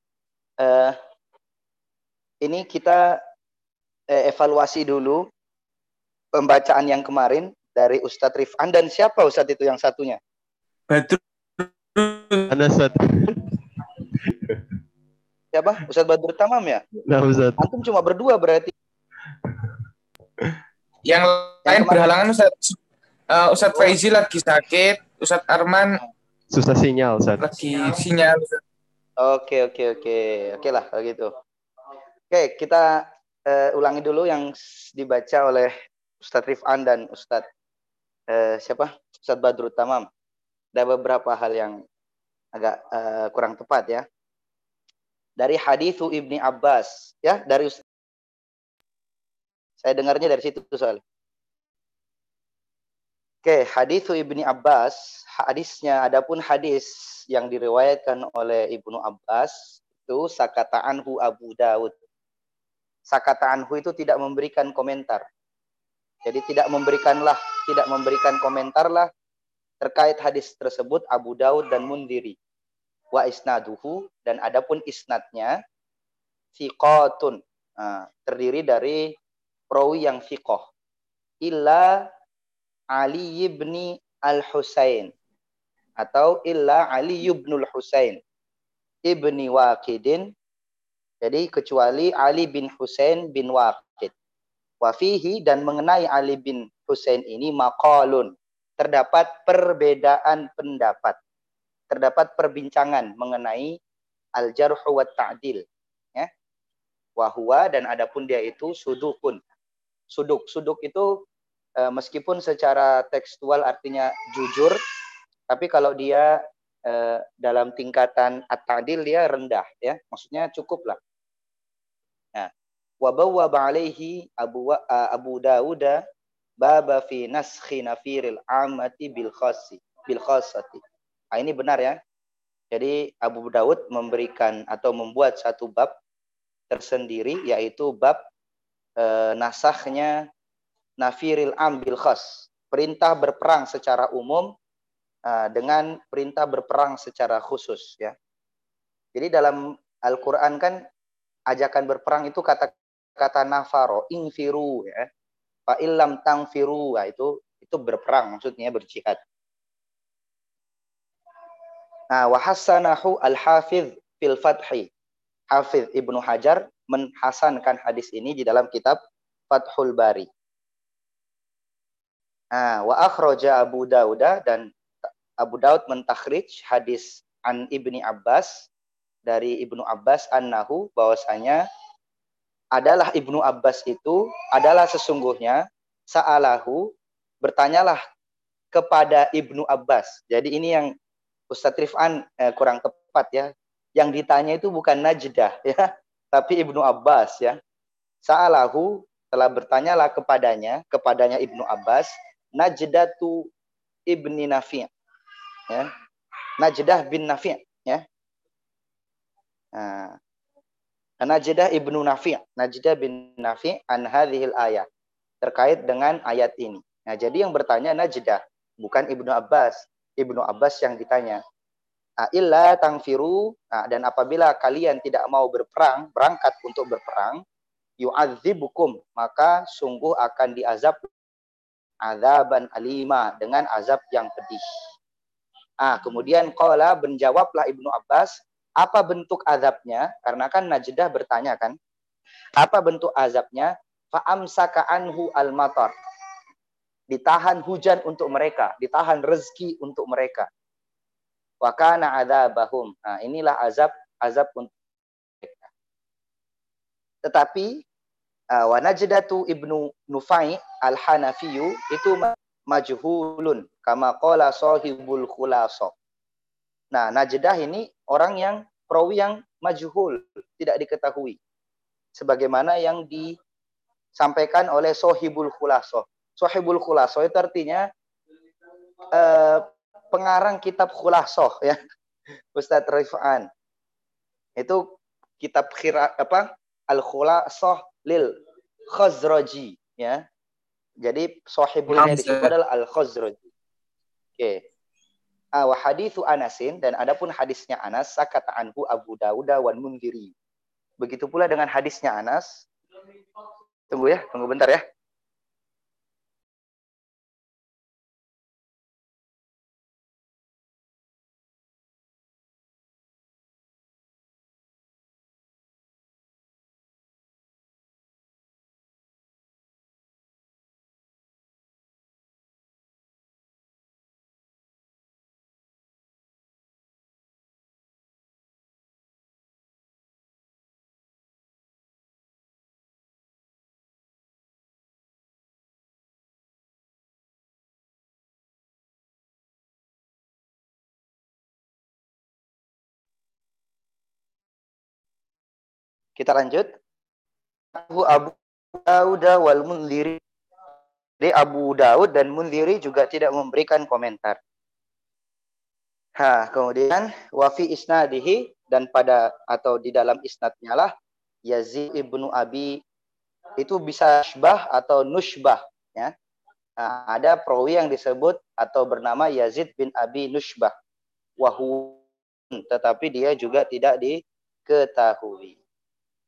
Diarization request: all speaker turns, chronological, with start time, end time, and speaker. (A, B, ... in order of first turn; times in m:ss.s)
0:00.6-0:01.0 A
0:02.4-0:03.2 A
0:04.1-0:05.2 A
0:06.4-0:10.2 A
0:10.9-0:12.5 B
0:12.5-0:13.4 C
0:15.5-0:16.8 A
0:17.1-0:17.7 C
0:17.6-0:18.7 A
0:19.5-0:19.8 C
0:21.0-0:22.8 B
0:21.7-0:22.0 A
0:23.3-0:26.0 B
0:26.5-0:27.4 C
0:27.4-0:28.6 B
0:29.2-0:31.3 A
0:32.3-0:37.4 A
0:38.3-0:40.1 A
0:40.8-0:41.8 A
0:42.6-0:44.0 A
0:45.4-0:47.8 A
0:49.8-0:51.0 A
0:53.4-1:01.9 A
1:03.1-1:05.2 A
1:06.2-1:09.1 A
1:09.8-1:12.4 A
1:13.1-1:15.6 A
1:16.6-1:19.1 A
1:19.7-1:20.7 A
1:21.4-1:22.0 A
1:23.0-1:25.1 A
1:26.0-1:28.2 A
1:29.1-1:30.3 A
1:31.2-1:34.1 A
1:34.8-1:41.2 A
1:41.9-1:43.8 A
1:44.4-1:45.6 A
1:47.2-1:49.4 A
1:50.1-1:51.1 A
1:51.8-1:54.8 A
1:55.5-1:56.4 A
1:56.9-2:01.0 A
2:03.0-2:06.0 A
2:06.6-2:10.8 A
2:11.3-2:12.0 A
2:12.7-2:15.9 A
2:16.7-2:18.2 A
2:19.0-2:20.2 A
2:21.0-2:24.5 A
2:25.3-2:28.2 A
2:29.2-2:30.8 A
2:31.5-2:35.1 A
2:35.7-2:39.2 A
2:42.1-2:44.9 A
2:45.5-2:49.0 A
2:49.5-2:50.3 A
2:52.5-2:54.7 A
2:55.4-2:58.6 A
2:59.3-3:01.6 A
3:02.8-3:06.9 A
3:07.4-3:08.0 A
3:08.7-3:10.9 A
3:11.5-3:17.6 A
3:18.2-3:23.5 A
3:24.1-3:24.9 A
3:26.6-3:28.0 A
3:29.7-3:30.2 A
3:31.2-3:34.9 A
3:35.4-3:41.4 A
3:42.2-3:47.4 A
3:48.0-3:51.1 A
3:52.0-3:54.6 A
3:55.8-4:01.8 A
4:02.6-4:05.9 A
4:07.1-4:10.5 A
4:11.6-4:14.7 A
4:15.4-4:15.7 A
4:17.2-4:17.8 A
4:18.6-4:25.9 A
4:26.9-4:31.4 A
4:32.2-4:33.4 A
4:34.2-4:37.9 A
4:39.1-4:41.8 A
4:42.6-4:43.5 A
4:44.6-4:44.8 A
4:45.4-4:48.3 A
4:48.9-4:50.2 A
4:51.0-4:53.4 A
4:51.9-4:52.5 B
4:55.6-5:00.3 A
5:01.0-5:02.6 A
5:03.9-5:04.8 A
5:46.2-5:46.7 A
5:47.7-5:50.2 A
5:51.2-5:54.4 A
5:56.2-6:00.9 A
6:01.5-6:02.8 A
6:03.6-6:06.1 A
6:06.8-6:10.7 A
6:11.4-6:12.0 A
6:12.5-6:15.6 A